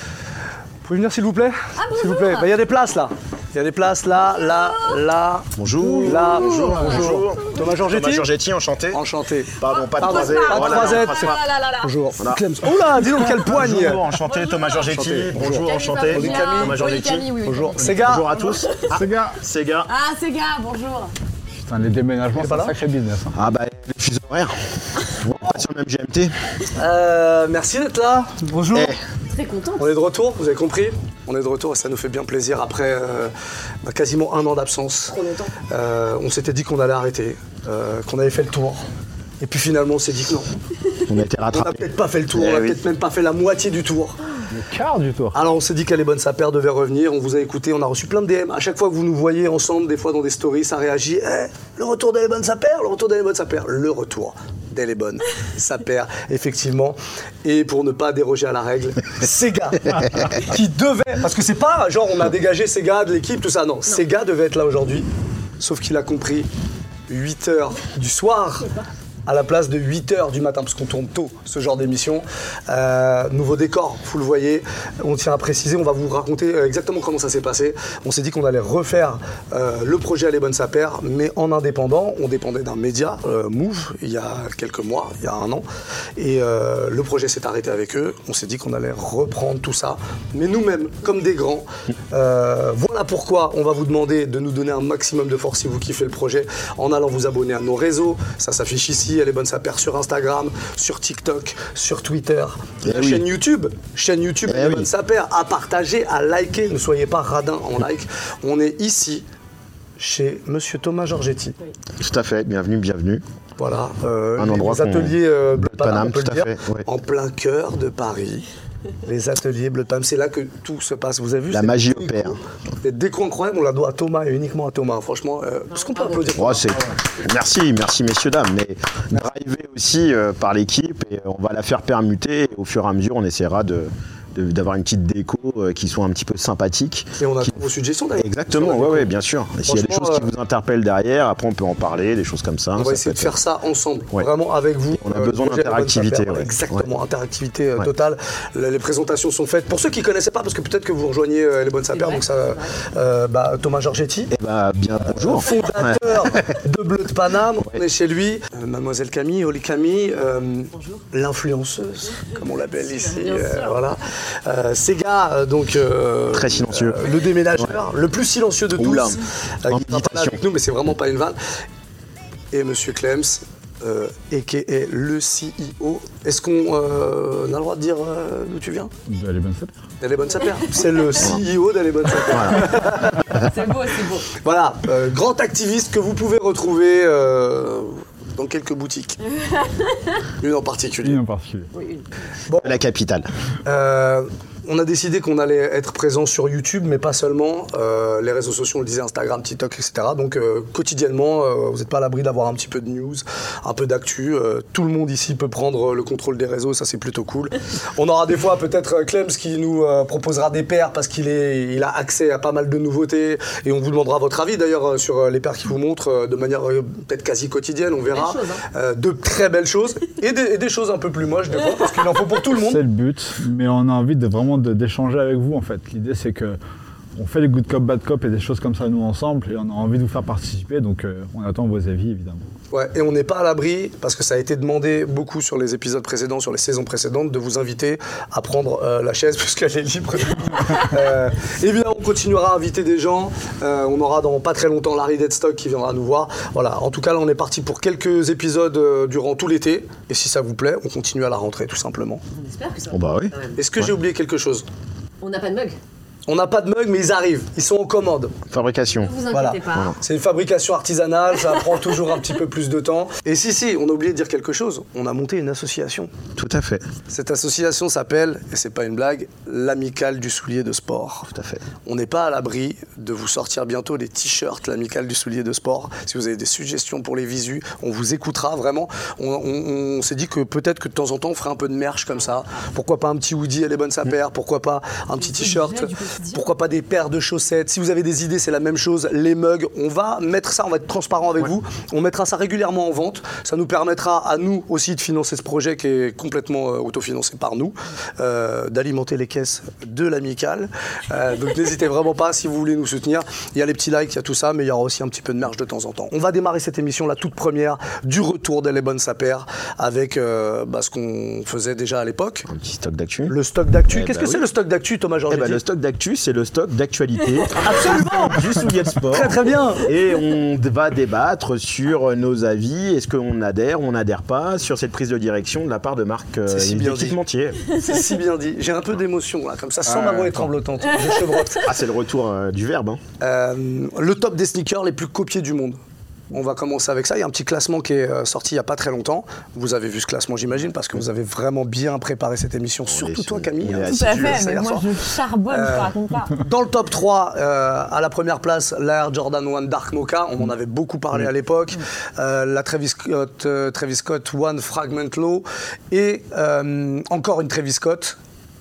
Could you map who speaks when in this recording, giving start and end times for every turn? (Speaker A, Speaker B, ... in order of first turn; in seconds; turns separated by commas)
Speaker A: 0.8-5.5, Speaker B: 1.8-2.5, Speaker C: 5.6-9.0, Speaker D: 5.8-6.1, Speaker A: 6.0-8.3, Speaker B: 6.4-7.2, Speaker A: 8.9-14.1, Speaker C: 9.6-11.4, Speaker B: 9.7-11.9, Speaker C: 12.2-12.5, Speaker C: 13.0-19.9, Speaker B: 14.2-19.0, Speaker A: 14.9-16.8, Speaker A: 17.4-18.3, Speaker D: 18.9-19.4, Speaker B: 19.9-21.1, Speaker D: 21.6-23.4, Speaker A: 22.3-22.7, Speaker C: 23.3-26.3, Speaker A: 26.8-28.9, Speaker C: 28.7-29.0, Speaker B: 29.3-29.9, Speaker A: 29.8-33.3, Speaker A: 33.8-38.8, Speaker B: 35.1-35.6, Speaker A: 39.4-40.5, Speaker C: 41.1-42.8, Speaker A: 41.1-44.2, Speaker D: 44.5-45.4, Speaker A: 45.3-65.1, Speaker A: 65.6-66.5, Speaker A: 67.1-85.7, Speaker A: 86.2-109.2, Speaker C: 102.8-103.3, Speaker C: 104.5-104.9, Speaker A: 110.0-111.6, Speaker C: 112.0-113.2, Speaker A: 113.6-118.5, Speaker C: 114.4-116.9, Speaker A: 119.0-127.0, Speaker C: 121.5-122.4, Speaker C: 126.3-137.5, Speaker A: 137.2-139.1, Speaker C: 138.2-143.4, Speaker A: 139.7-140.3, Speaker A: 142.8-154.3, Speaker C: 144.9-146.9, Speaker B: 151.9-152.7, Speaker C: 154.3-156.6, Speaker A: 155.2-171.4, Speaker B: 163.1-163.8, Speaker C: 166.3-167.0, Speaker C: 168.8-170.4, Speaker A: 172.5-178.9, Speaker D: 179.1-179.8, Speaker A: 180.0-183.5, Speaker C: 182.3-182.6, Speaker B: 183.3-184.3, Speaker A: 184.3-189.2, Speaker B: 189.5-190.1, Speaker A: 190.4-191.2, Speaker D: 191.0-191.7, Speaker B: 191.7-192.1, Speaker A: 192.5-192.8, Speaker C: 192.6-193.3, Speaker A: 193.7-222.8, Speaker B: 218.1-218.6, Speaker D: 222.5-226.6, Speaker D: 227.2-232.4, Speaker A: 232.7-252.2, Speaker B: 252.3-253.6, Speaker C: 252.9-253.9, Speaker A: 253.6-254.7, Speaker B: 255.2-255.8, Speaker A: 256.3-258.3, Speaker C: 258.5-259.1, Speaker B: 259.0-260.0, Speaker A: 259.3-266.1, Speaker C: 266.4-266.9, Speaker A: 267.1-271.3, Speaker C: 271.3-271.6, Speaker A: 271.9-312.5, Speaker B: 285.2-286.5, Speaker C: 312.5-313.4, Speaker A: 313.3-315.6, Speaker C: 313.9-314.4, Speaker C: 315.3-327.6, Speaker A: 317.5-319.9, Speaker A: 326.5-327.2, Speaker A: 327.7-331.7, Speaker D: 329.9-330.5, Speaker C: 331.6-333.0, Speaker A: 333.2-335.8, Speaker A: 336.3-358.1, Speaker C: 342.9-344.5, Speaker B: 343.9-346.4